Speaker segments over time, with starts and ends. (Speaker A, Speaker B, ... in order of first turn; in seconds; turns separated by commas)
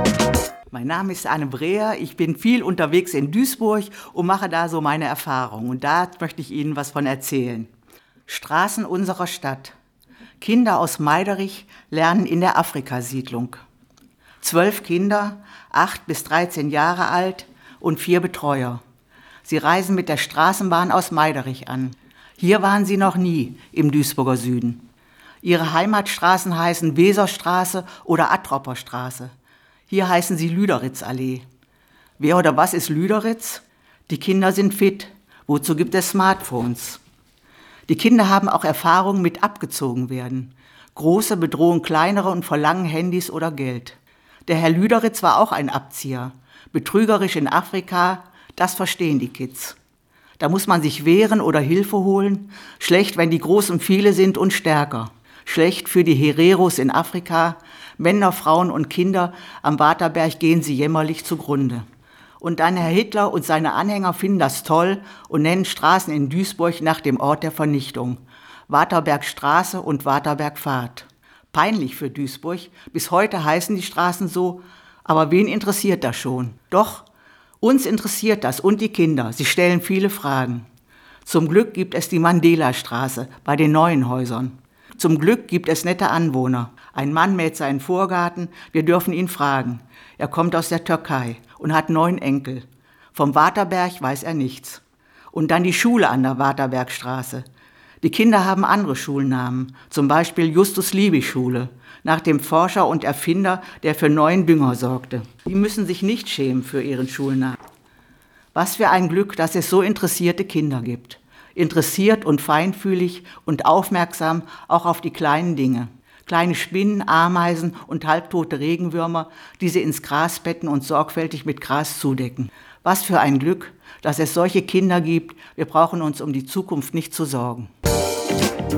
Speaker A: 0.7-7.7, Speaker A: 8.3-9.7, Speaker A: 10.4-13.6, Speaker A: 14.4-18.8, Speaker A: 19.4-24.8, Speaker A: 25.4-29.3, Speaker A: 29.9-31.4, Speaker A: 32.2-37.0, Speaker A: 37.9-49.8, Speaker A: 50.4-61.8, Speaker A: 62.4-77.1, Speaker A: 77.6-80.7, Speaker A: 81.2-94.8, Speaker A: 95.3-97.5, Speaker A: 98.0-107.6, Speaker A: 108.5-127.7